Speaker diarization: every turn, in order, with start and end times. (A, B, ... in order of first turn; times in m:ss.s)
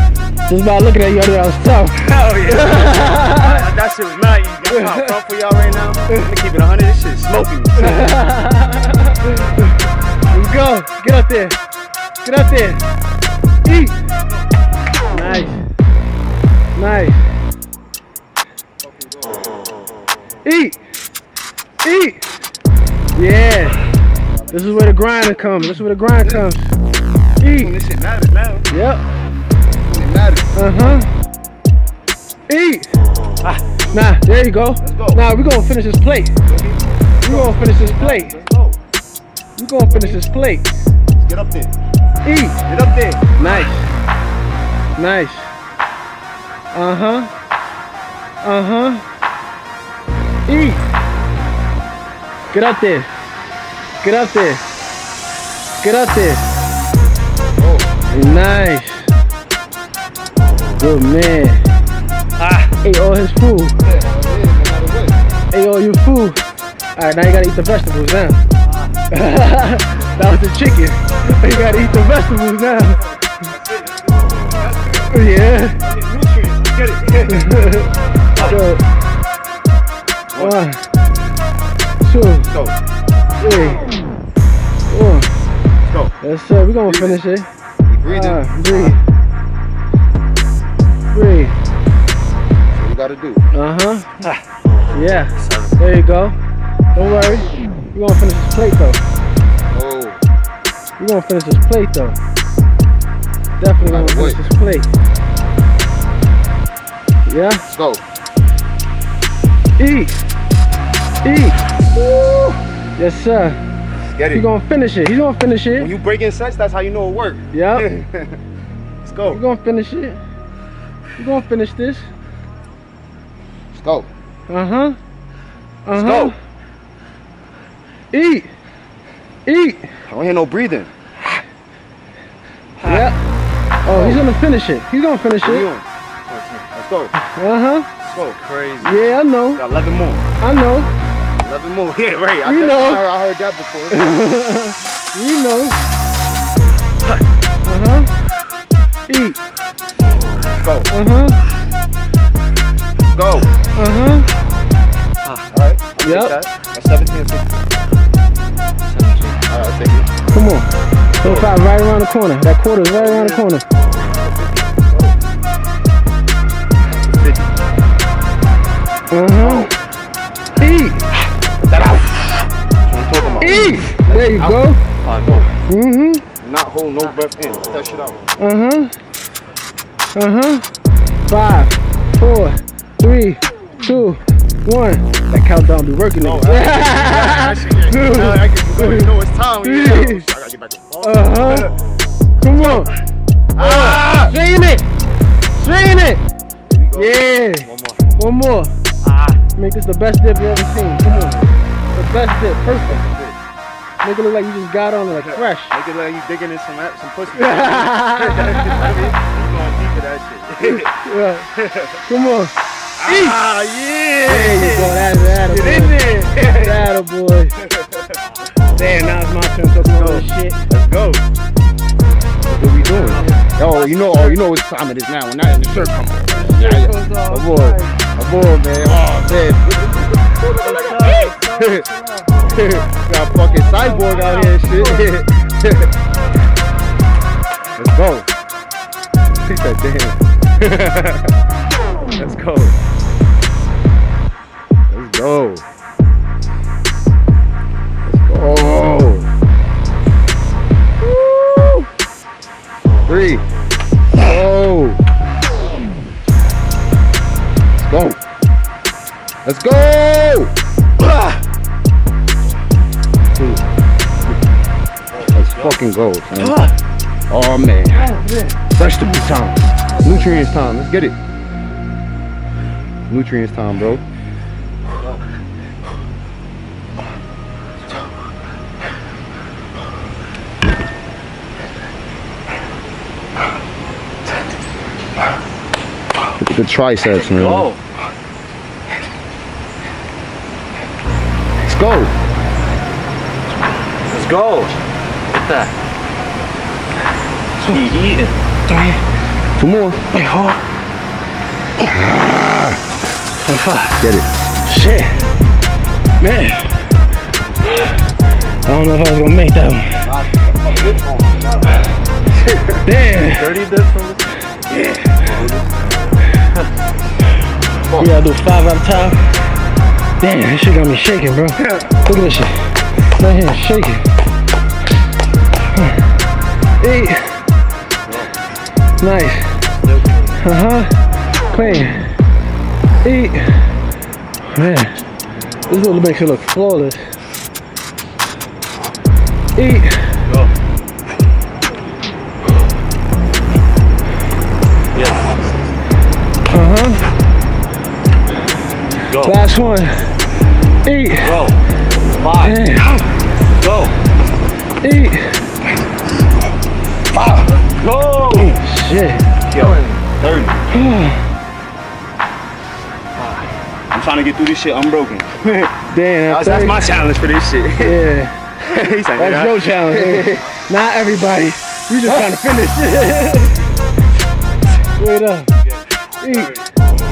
0:00.5-0:03.6 A
0:02.0-0:08.1 B
0:04.7-0:05.1 A
0:07.8-0:09.7 A
0:10.3-0:11.6 A
0:12.2-0:12.8 A
0:13.6-0:14.0 A
0:15.1-0:15.6 A
0:16.8-0:17.2 A
0:18.8-0:19.6 B
0:20.4-0:20.8 A
0:21.8-0:22.2 A
0:23.2-0:23.8 A
0:24.3-0:24.8 B
0:24.5-0:26.7 A
0:26.2-0:26.4 B
0:27.4-0:27.7 A
0:27.4-0:28.7 B
0:28.7-0:29.0 A
0:29.8-0:31.0 B
0:30.5-0:31.1 A
0:32.5-0:32.9 A
0:33.9-0:36.3 A
0:34.8-0:35.2 B
0:36.4-0:38.8 B
0:37.2-0:38.3 A
0:39.6-0:40.7 A
0:39.9-0:40.2 B
0:41.2-0:41.7 B
0:42.2-0:42.7 A
0:42.7-0:43.5 B
0:43.4-0:43.9 A
0:45.0-0:45.5 A
0:46.7-0:47.3 A
0:48.4-0:49.0 A
0:50.5-0:50.8 A
0:52.5-0:53.1 A
0:54.0-0:54.6 A
0:55.8-0:56.5 A
0:57.6-0:57.9 B
0:58.1-0:59.1 A
1:00.8-1:01.6 A
1:02.4-1:02.7 C
1:02.8-1:03.8 A
1:03.8-1:05.2 B
1:05.5-1:06.4 A
1:06.9-1:08.4 A
1:09.1-1:13.0 A
1:11.6-1:11.9 B
1:13.3-1:17.7 B
1:15.1-1:15.8 A
1:17.3-1:18.8 A
1:18.3-1:18.6 B
1:20.3-1:20.6 B
1:20.4-1:20.8 A
1:22.0-1:22.5 A
1:22.4-1:22.7 B
1:23.4-1:23.9 A
1:24.9-1:25.3 A
1:25.8-1:26.1 B
1:26.2-1:27.5 A
1:26.8-1:27.2 B
1:27.9-1:29.0 B
1:28.1-1:29.0 A
1:31.1-1:31.5 A
1:32.7-1:33.4 B
1:33.5-1:34.2 A
1:34.9-1:36.4 A
1:35.0-1:35.9 C
1:36.9-1:39.0 A
1:39.7-1:40.2 B
1:41.0-1:42.2 A
1:43.6-1:44.9 A
1:43.8-1:44.4 B
1:47.2-1:47.6 A
1:47.7-1:48.0 B
1:49.8-1:50.1 A
1:51.2-1:53.6 A
1:54.1-1:54.4 B
1:54.3-1:55.9 A
1:55.8-1:58.4 B
1:57.5-1:57.9 A
1:59.0-1:59.4 B
1:59.3-2:00.2 A
2:01.2-2:02.1 A
2:03.7-2:04.1 B
2:04.5-2:05.0 A
2:05.8-2:06.4 A
2:05.9-2:06.3 B
2:08.1-2:08.5 A
2:09.5-2:09.9 A
2:10.1-2:10.9 B
2:12.8-2:13.1 C
2:12.8-2:13.2 A
2:13.8-2:15.7 A
2:13.9-2:14.2 B
2:15.4-2:15.8 B
2:16.3-2:16.6 C
2:16.7-2:17.1 B
2:17.2-2:17.9 A
2:18.0-2:18.4 B
2:18.3-2:19.0 C
2:18.8-2:19.6 A
2:19.5-2:20.2 B
2:20.4-2:20.9 A
2:21.4-2:24.2 B
2:22.4-2:23.0 A
2:23.9-2:25.8 A
2:27.6-2:28.1 A
2:29.1-2:29.4 A
2:30.5-2:30.9 B
2:30.9-2:31.4 A
2:33.0-2:33.5 B
2:33.8-2:34.3 A
2:35.5-2:37.6 B
2:36.0-2:36.3 A
2:38.8-2:39.4 C
2:39.5-2:40.1 B
2:40.3-2:40.7 A
2:41.2-2:41.5 B
2:41.2-2:43.6 A
2:42.8-2:43.4 B
2:44.0-2:45.1 B
2:46.8-2:47.5 B
2:49.1-2:49.7 A
2:49.3-2:49.7 B
2:50.6-2:51.1 A
2:51.6-2:52.3 B
2:52.8-2:54.7 B
2:53.4-2:54.8 A
2:55.0-2:55.5 C
2:55.6-2:56.2 A
2:56.4-2:58.2 B
2:58.4-2:58.9 A
3:00.1-3:00.6 A
3:01.3-3:09.1 A
3:06.2-3:11.7 B
3:09.6-3:10.2 A
3:11.0-3:11.7 A
3:12.4-3:12.9 A
3:13.5-3:14.3 B
3:13.6-3:14.8 A
3:15.6-3:16.2 A
3:16.7-3:17.2 B
3:17.0-3:18.7 A
3:17.6-3:18.1 C
3:19.0-3:19.4 C
3:19.6-3:21.4 A
3:21.0-3:21.6 B
3:21.9-3:23.0 A
3:22.6-3:23.4 B
3:24.0-3:25.8 A
3:25.1-3:31.0 B
3:27.3-3:29.1 A
3:30.7-3:31.5 A
3:31.5-3:32.0 B
3:32.0-3:32.5 A
3:33.0-3:36.8 B
3:33.0-3:33.4 A
3:34.2-3:37.5 A
3:37.6-3:38.2 B
3:38.7-3:40.6 A
3:39.8-3:41.2 B
3:42.4-3:51.8 B
3:42.8-3:43.3 C
3:43.1-3:44.4 A
3:45.6-3:48.0 A
3:50.6-3:52.5 A
3:52.5-3:55.9 B
3:53.2-3:55.1 A
3:57.8-3:58.3 B
3:59.4-4:01.4 B
4:02.1-4:02.8 B
4:04.9-4:05.6 B
4:08.0-4:09.3 B
4:11.0-4:11.9 B
4:13.0-4:13.4 B
4:14.1-4:15.0 B
4:17.8-4:18.2 B
4:19.4-4:20.5 B
4:23.3-4:23.6 B
4:25.1-4:25.8 C
4:25.3-4:26.7 B
4:26.4-4:26.7 A
4:27.3-4:28.1 B
4:27.9-4:28.6 A
4:28.7-4:31.2 B
4:33.1-4:34.0 B
4:46.4-4:47.7 B
4:47.0-4:47.8 C
4:51.6-4:52.1 B
4:54.1-4:54.7 C
4:55.3-4:55.7 C
4:57.6-4:58.3 C
4:58.7-4:59.0 A
4:59.6-5:00.0 B
5:00.1-5:00.6 A
5:01.8-5:02.8 B
5:03.4-5:04.0 A
5:04.0-5:04.4 B
5:04.6-5:05.2 A
5:06.2-5:06.7 A
5:08.6-5:10.0 A
5:10.0-5:12.8 B
5:12.8-5:13.5 A
5:13.2-5:14.3 C
5:14.7-5:15.7 B
5:17.8-5:18.1 B
5:18.0-5:19.2 A
5:20.2-5:24.0 A
5:26.8-5:27.4 A
5:29.0-5:29.6 A
5:29.7-5:30.4 C
5:30.4-5:30.9 A
5:31.5-5:32.1 A
5:33.0-5:33.7 A
5:34.5-5:35.0 A
5:35.7-5:37.0 A
5:39.6-5:40.1 A
5:40.2-5:40.5 C
5:44.9-5:45.3 C
5:46.5-5:47.0 A
5:49.1-5:49.4 C
5:49.2-5:50.1 A
5:50.8-5:51.4 A
5:51.2-5:52.6 C
5:52.4-5:53.0 A
5:53.6-5:54.0 C
5:54.8-5:55.4 A
5:57.1-5:57.6 B
5:57.6-5:58.6 C
5:58.4-5:59.3 A
5:59.5-6:00.6 B
5:59.5-6:00.0 C
6:00.7-6:01.2 A
6:03.2-6:03.5 C
6:03.9-6:05.7 B
6:05.9-6:06.8 A
6:06.3-6:08.0 B
6:07.8-6:13.6 A
6:08.6-6:10.5 B
6:12.0-6:12.3 B
6:15.0-6:15.5 A
6:15.6-6:16.6 C
6:16.2-6:16.6 A